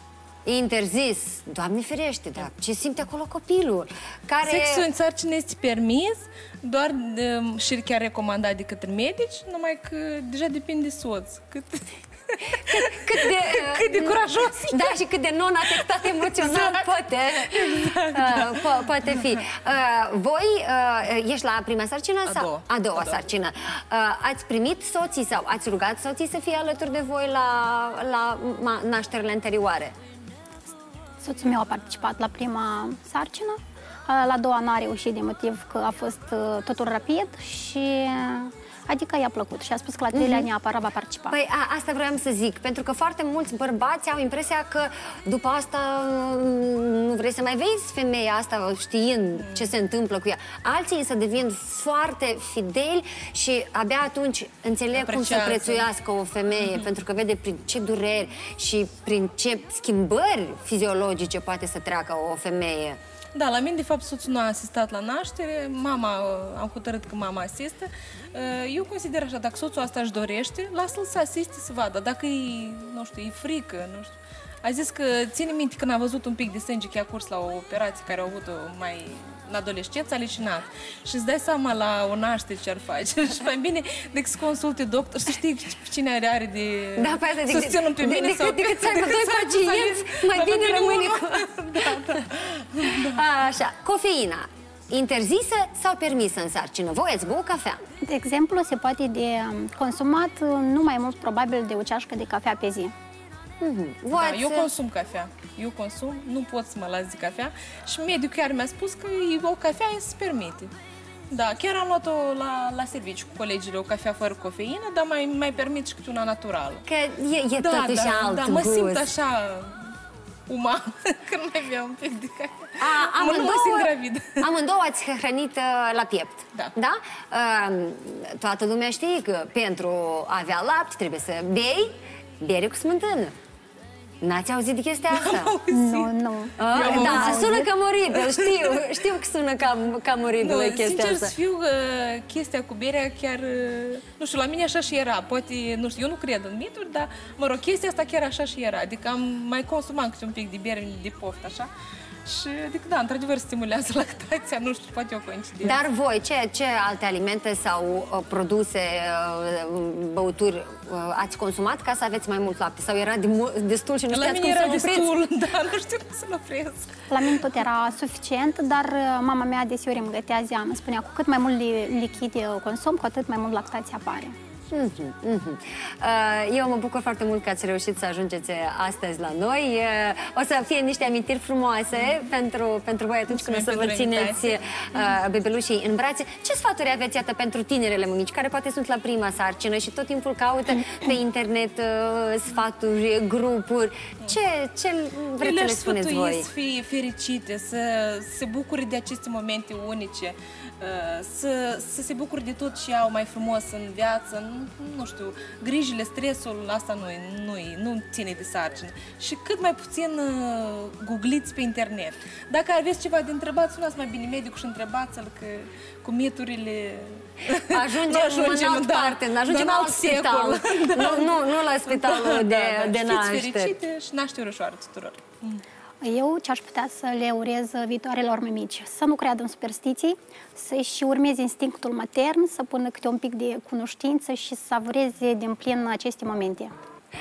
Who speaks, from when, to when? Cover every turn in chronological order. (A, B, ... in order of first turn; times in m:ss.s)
0:00.5-0:04.9 A
0:04.4-0:15.0 B
0:12.6-0:30.0 A
0:15.7-0:19.4 B
0:22.2-0:23.2 B
0:31.2-0:41.4 C
0:40.1-0:40.5 A
0:41.3-1:03.0 A
0:49.4-0:49.7 B
0:54.9-0:55.9 B
0:56.6-0:56.9 B
1:03.3-1:33.2 B
1:27.0-1:32.2 A
1:33.0-1:37.8 A
1:38.0-1:42.9 C
1:43.6-1:44.7 A
1:44.1-1:50.7 B
1:51.3-1:56.8 B
1:56.9-1:59.1 A
1:57.6-1:59.9 B
2:00.5-2:04.4 B
2:02.8-2:13.4 A
2:14.2-2:15.5 A
2:15.1-2:16.1 B
2:15.7-2:17.7 C
2:16.6-2:21.3 A
2:16.7-2:18.8 B
2:20.4-2:31.7 B
2:32.2-2:35.8 B
2:35.6-2:45.1 A
2:44.1-2:46.9 B
2:47.1-2:54.4 C
2:54.7-3:16.5 A
3:03.3-3:05.2 B
3:15.4-3:45.6 B
3:37.7-3:43.8 A
3:46.0-3:56.8 C